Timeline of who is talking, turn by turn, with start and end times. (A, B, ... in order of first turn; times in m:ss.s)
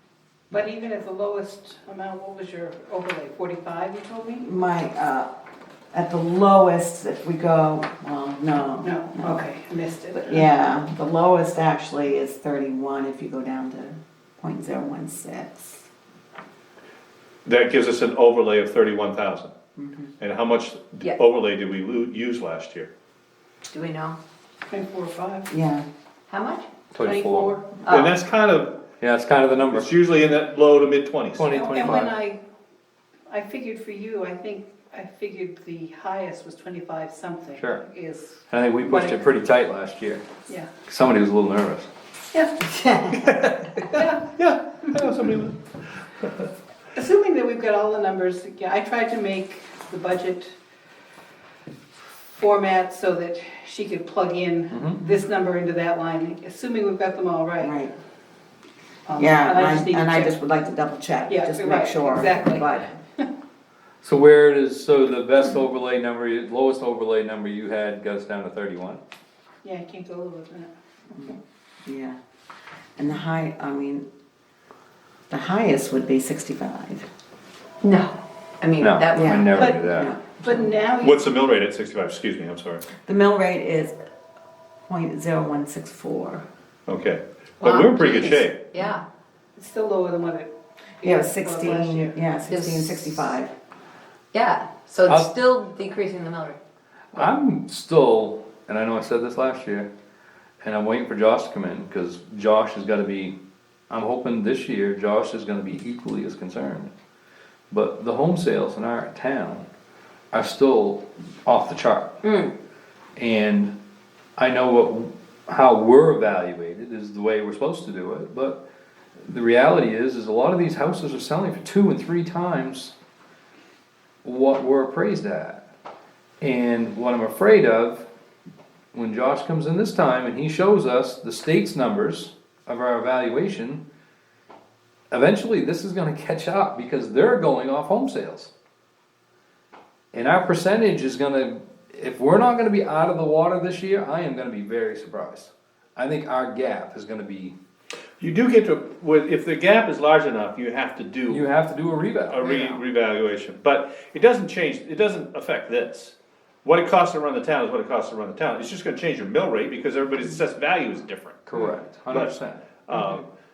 0:00.5-0:04.4 A
0:04.4-0:05.3 B
0:05.9-0:09.5 B
0:08.8-0:10.5 A
0:10.2-0:15.8 B
0:17.4-0:19.5 C
0:19.8-0:20.1 B
0:20.2-0:22.9 C
0:23.7-0:24.2 D
0:24.7-0:25.5 A
0:25.5-0:25.8 B
0:26.3-0:26.7 D
0:26.9-0:27.6 E
0:26.9-0:27.9 A
0:27.8-0:28.2 D
0:27.8-0:28.8 C
0:29.0-0:29.9 E
0:29.6-0:31.5 C
0:31.4-0:32.1 E
0:31.4-0:32.4 A
0:33.3-0:39.3 A
0:37.6-0:37.8 E
0:38.5-0:40.2 E
0:40.8-0:41.9 E
0:42.3-0:42.6 A
0:43.1-0:46.5 C
0:43.9-0:44.3 A
0:46.9-0:50.6 A
0:52.4-0:57.8 A
0:54.7-0:55.0 E
0:57.6-0:57.9 B
0:59.1-1:00.4 A
0:59.2-1:02.9 B
1:01.3-1:02.8 A
1:04.0-1:09.0 E
1:09.6-1:10.7 A
1:11.2-1:12.2 B
1:13.0-1:14.0 B
1:15.3-1:17.0 B
1:17.8-1:19.8 D
1:18.8-1:20.1 E
1:19.1-1:20.7 B
1:19.6-1:19.8 A
1:20.4-1:21.4 A
1:21.0-1:22.8 C
1:23.0-1:24.0 B
1:24.9-1:26.4 B
1:26.9-1:28.6 C
1:27.6-1:29.0 D
1:29.6-1:32.2 A
1:31.0-1:33.5 B
1:32.5-1:33.1 D
1:34.3-1:36.6 D
1:35.1-1:35.3 E
1:37.1-1:39.9 E
1:40.6-1:43.4 E
1:43.9-1:46.9 E
1:47.7-1:49.7 E
1:50.3-1:52.2 E
1:52.2-1:52.5 D
1:53.2-1:53.7 E
1:54.4-1:58.6 E
1:59.3-2:02.9 E
2:04.2-2:05.6 E
2:06.4-2:08.1 E
2:08.9-2:13.8 E
2:15.1-2:18.5 E
2:20.1-2:27.5 E
2:28.2-2:31.5 C
2:31.3-2:32.8 E
2:32.3-2:43.3 C
2:41.4-2:43.2 E